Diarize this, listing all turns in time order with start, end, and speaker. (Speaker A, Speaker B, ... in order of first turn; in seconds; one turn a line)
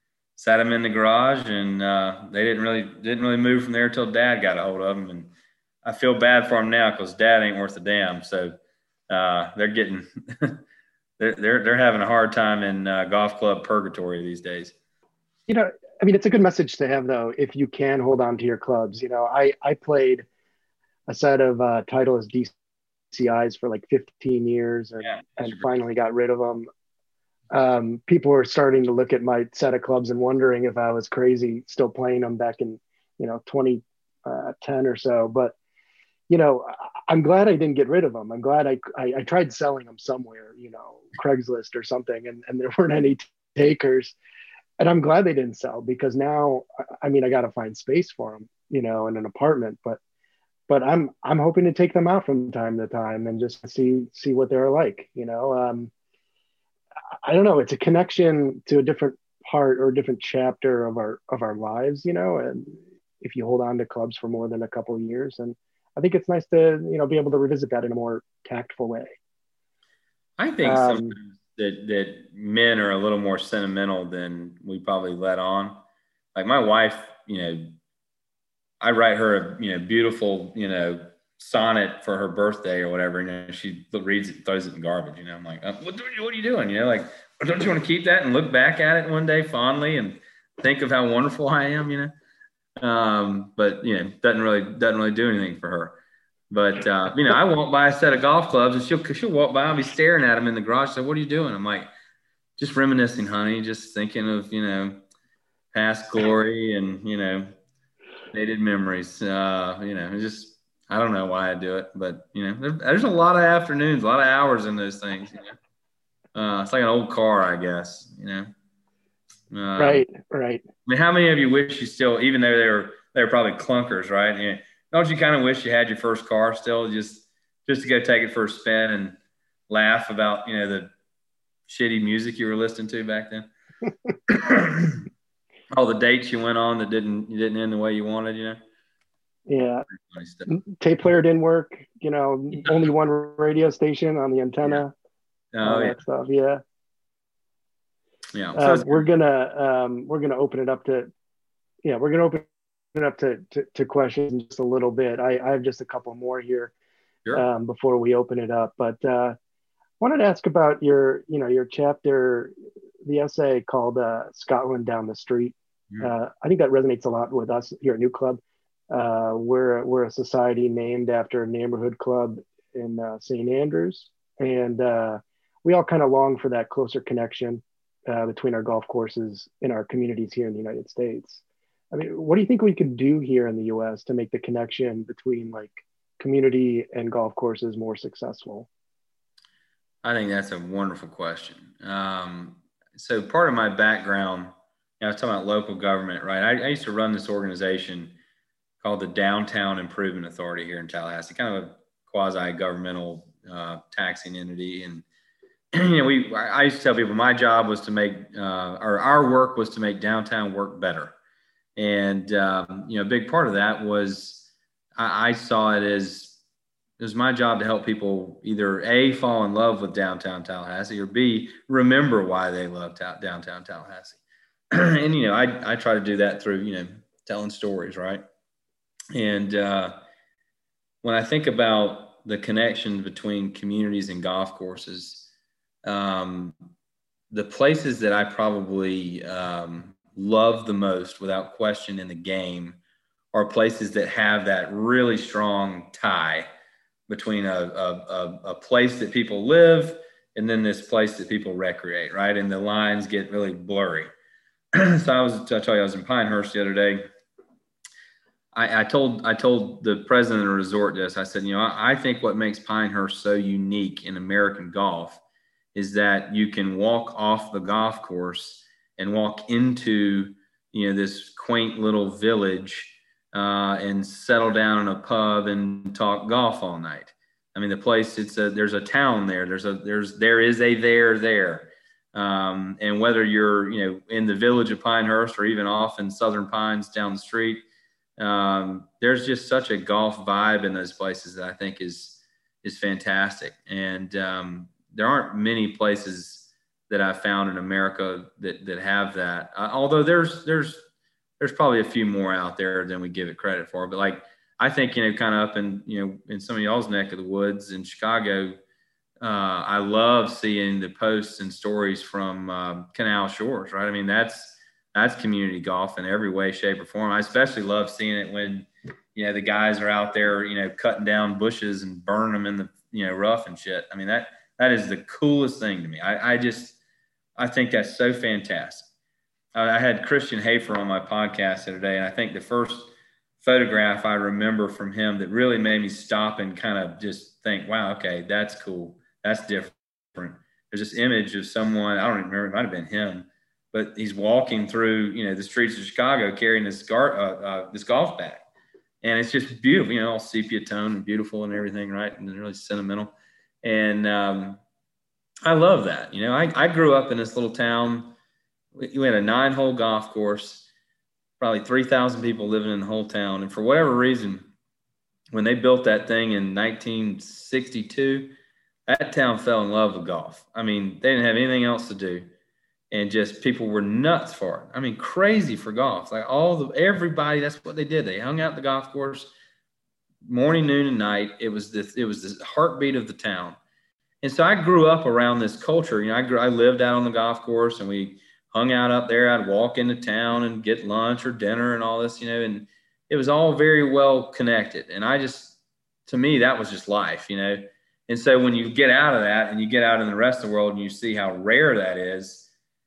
Speaker A: 0.4-5.3
Speaker A: 5.8-8.6
Speaker A: 9.1-10.6
Speaker A: 11.2-14.7
Speaker B: 15.5-20.2
Speaker B: 21.1-22.5
Speaker B: 23.1-26.7
Speaker A: 25.0-25.7
Speaker B: 27.5-35.5
Speaker B: 36.3-44.1
Speaker B: 44.8-50.0
Speaker B: 50.7-55.9
Speaker B: 57.2-69.2
Speaker A: 70.4-75.8
Speaker B: 70.6-71.1
Speaker A: 76.3-77.7
Speaker A: 78.8-92.1
Speaker A: 92.8-96.0
Speaker A: 96.5-101.9
Speaker A: 102.6-105.0
Speaker A: 105.7-107.5
Speaker A: 108.3-115.5
Speaker A: 116.3-118.5
Speaker A: 119.5-120.0
Speaker B: 119.8-120.6
Speaker A: 120.8-129.2
Speaker A: 129.7-130.9
Speaker A: 131.7-133.5
Speaker A: 134.3-135.0
Speaker A: 135.7-138.6
Speaker B: 139.5-139.8
Speaker A: 139.9-140.5
Speaker B: 140.5-144.9
Speaker A: 145.5-146.0
Speaker B: 145.6-146.6
Speaker A: 148.3-149.0
Speaker B: 148.6-151.1
Speaker B: 151.8-156.7
Speaker B: 157.3-159.3
Speaker B: 160.0-162.5
Speaker B: 163.0-181.4
Speaker B: 181.9-188.7
Speaker A: 190.0-198.2
Speaker A: 198.8-205.0
Speaker A: 205.7-211.1
Speaker A: 211.8-216.4
Speaker A: 217.0-224.2
Speaker A: 224.7-228.2
Speaker A: 229.1-230.0
Speaker A: 231.0-235.3
Speaker A: 235.8-236.6
Speaker A: 237.3-242.8
Speaker A: 243.3-246.5
Speaker A: 247.1-254.1
Speaker A: 254.7-257.1
Speaker A: 258.5-265.2
Speaker A: 265.7-287.6
Speaker A: 288.2-300.8
Speaker A: 301.4-308.6
Speaker A: 309.2-326.8
Speaker A: 327.4-328.9
Speaker A: 329.5-348.5
Speaker A: 349.0-354.6
Speaker A: 355.4-358.1
Speaker A: 358.7-360.7
Speaker A: 361.4-364.5
Speaker A: 365.3-368.3
Speaker A: 368.9-372.3
Speaker A: 372.9-379.3
Speaker A: 380.2-383.6
Speaker A: 384.2-402.5